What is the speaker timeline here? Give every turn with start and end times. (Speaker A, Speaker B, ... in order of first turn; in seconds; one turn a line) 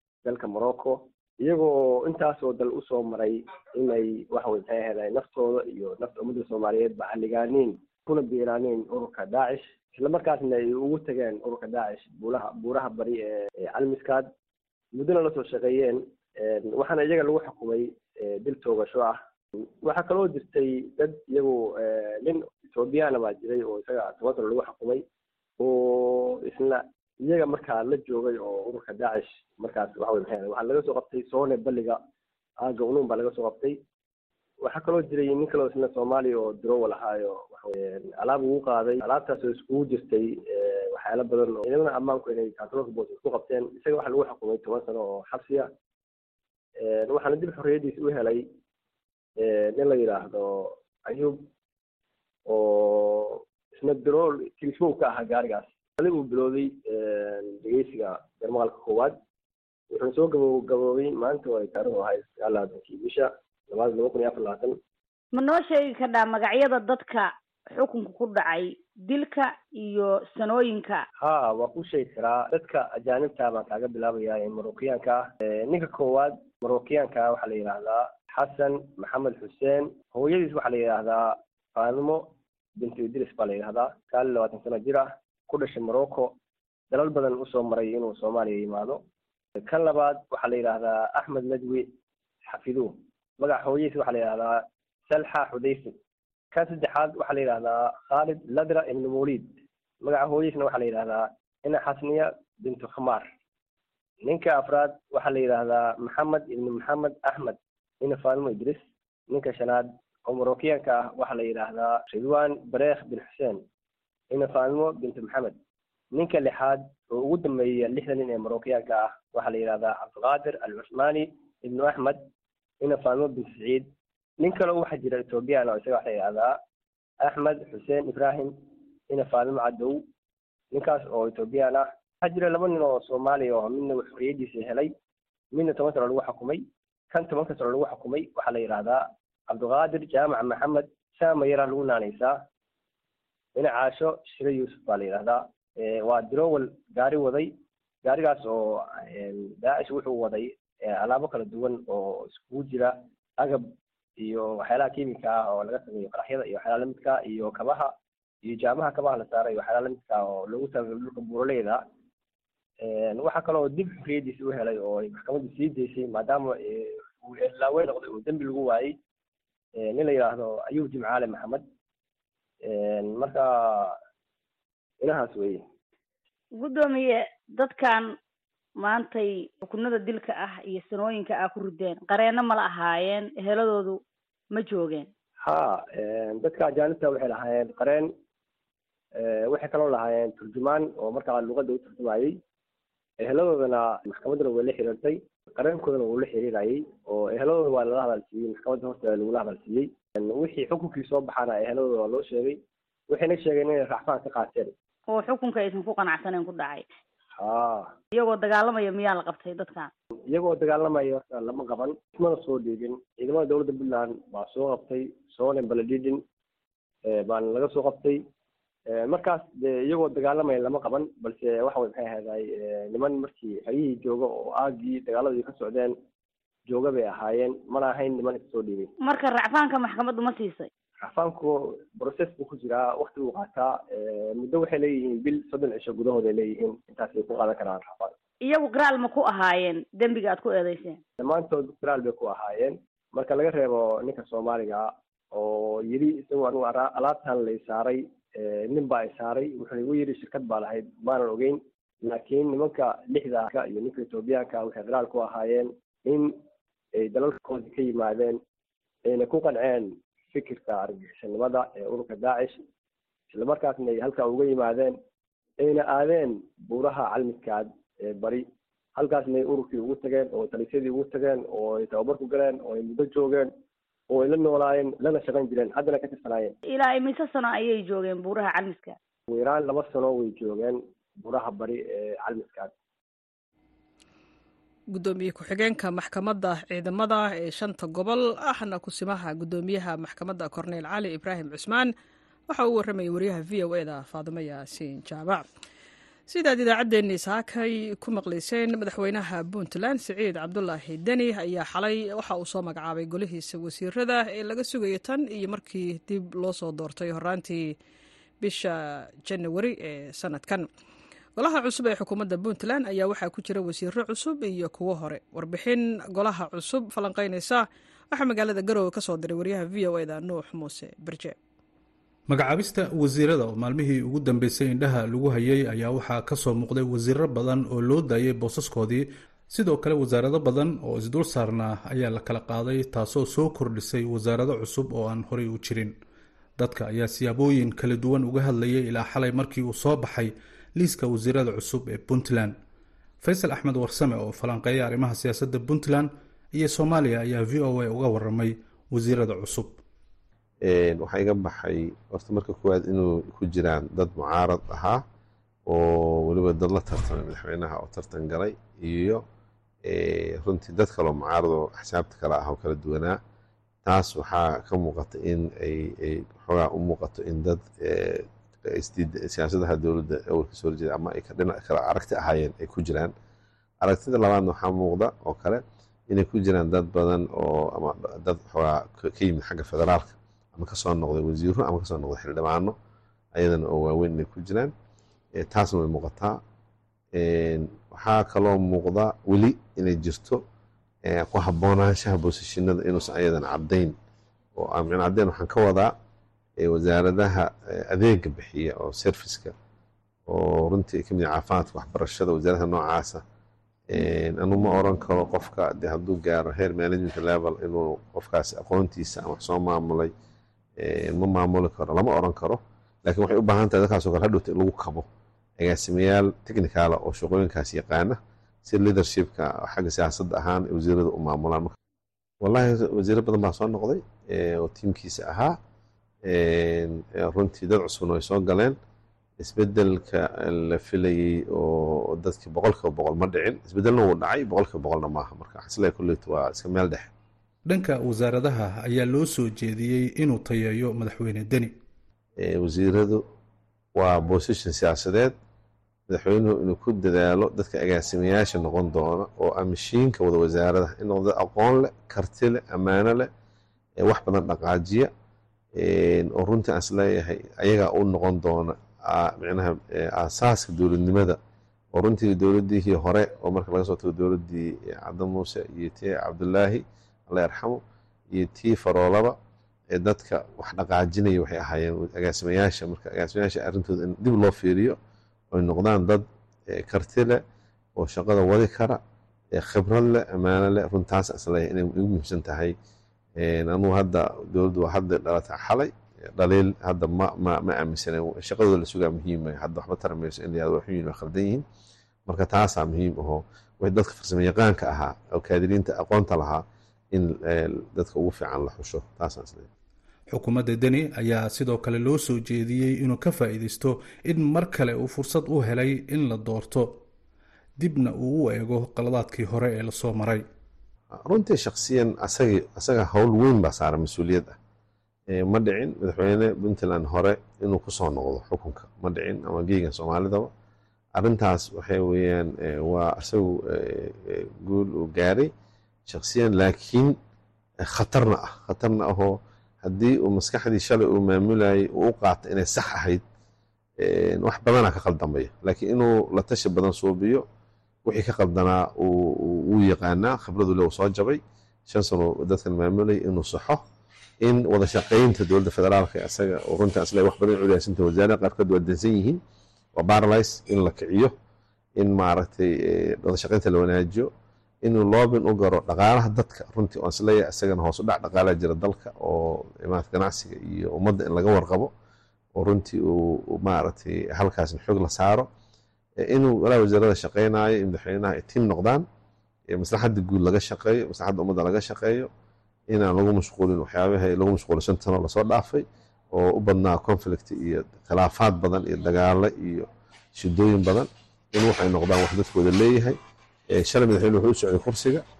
Speaker A: 0.2-14.3
Speaker A: 14.9-25.0
Speaker A: 25.6-32.0
Speaker A: 32.6-33.8
Speaker A: 34.6-45.7
Speaker A: 46.8-48.4
Speaker A: 49.4-51.5
Speaker A: 52.5-59.2
Speaker A: 59.9-64.8
Speaker B: 65.3-71.0
Speaker A: 71.2-86.3
Speaker A: 86.9-89.0
Speaker A: 89.6-91.9
Speaker A: 92.5-96.0
Speaker A: 96.5-103.3
Speaker A: 104.2-113.6
Speaker A: 114.3-115.6
Speaker A: 116.1-122.2
Speaker A: 122.8-123.9
Speaker A: 124.4-126.5
Speaker A: 127.2-128.6
Speaker A: 129.1-130.0
Speaker A: 130.7-134.9
Speaker A: 135.5-142.4
Speaker A: 143.6-157.9
Speaker A: 158.4-161.8
Speaker A: 162.8-168.9
Speaker A: 169.8-171.6
Speaker A: 172.6-174.0
Speaker A: 175.0-175.6
Speaker B: 176.6-178.1
Speaker B: 178.8-184.0
Speaker B: 184.5-185.1
Speaker A: 185.4-188.1
Speaker A: 189.2-192.4
Speaker A: 193.2-202.6
Speaker A: 203.1-204.7
Speaker B: 205.1-206.8
Speaker A: 207.4-207.9
Speaker B: 208.1-209.9
Speaker A: 210.3-216.2
Speaker A: 217.1-218.2
Speaker A: 218.9-225.9
Speaker A: 226.7-228.9
Speaker B: 229.0-230.7
Speaker A: 231.0-238.1
Speaker B: 238.4-241.0
Speaker A: 241.2-256.4
Speaker A: 256.9-258.4
Speaker A: 259.1-262.6
Speaker A: 263.3-265.0
Speaker A: 265.6-268.4
Speaker A: 268.9-273.5
Speaker A: 274.1-276.6
Speaker B: 276.7-278.9
Speaker A: 279.3-282.7
Speaker C: 284.9-291.9
Speaker C: 292.5-295.4
Speaker C: 296.3-307.7
Speaker C: 308.4-310.7
Speaker C: 311.4-321.3
Speaker D: 322.3-335.9
Speaker D: 336.6-342.6
Speaker D: 343.2-349.8
Speaker E: 350.6-355.0
Speaker E: 355.6-359.2
Speaker E: 359.8-363.2
Speaker E: 363.8-373.1
Speaker E: 373.8-382.8
Speaker E: 383.3-384.7
Speaker E: 385.3-386.4
Speaker E: 387.1-390.4
Speaker E: 391.0-393.9
Speaker E: 394.6-395.9
Speaker E: 396.6-399.6
Speaker E: 400.2-403.2
Speaker E: 403.9-410.1
Speaker E: 410.8-415.1
Speaker E: 415.6-421.7
Speaker E: 422.4-425.6
Speaker E: 426.2-428.8
Speaker E: 429.4-437.1
Speaker D: 437.7-441.7
Speaker E: 442.4-443.2
Speaker E: 443.9-445.3
Speaker E: 446.1-453.3
Speaker E: 454.0-455.1
Speaker E: 455.8-461.4
Speaker E: 461.9-467.8
Speaker E: 468.3-469.3
Speaker E: 469.9-475.0
Speaker E: 475.5-477.4
Speaker E: 478.0-479.0
Speaker E: 479.5-482.7
Speaker E: 483.4-491.6
Speaker E: 492.2-499.7
Speaker D: 500.3-507.0
Speaker D: 507.8-510.4
Speaker E: 511.1-514.6
Speaker E: 515.3-520.5
Speaker E: 521.1-525.5
Speaker E: 526.1-527.1
Speaker E: 527.8-533.2
Speaker E: 534.0-537.4
Speaker E: 538.0-543.8
Speaker E: 544.4-549.4
Speaker E: 550.0-551.3
Speaker E: 552.0-554.3
Speaker E: 554.8-561.9
Speaker E: 562.5-565.5
Speaker E: 566.2-569.0
Speaker E: 569.7-572.3
Speaker E: 572.9-583.2
Speaker E: 583.7-585.2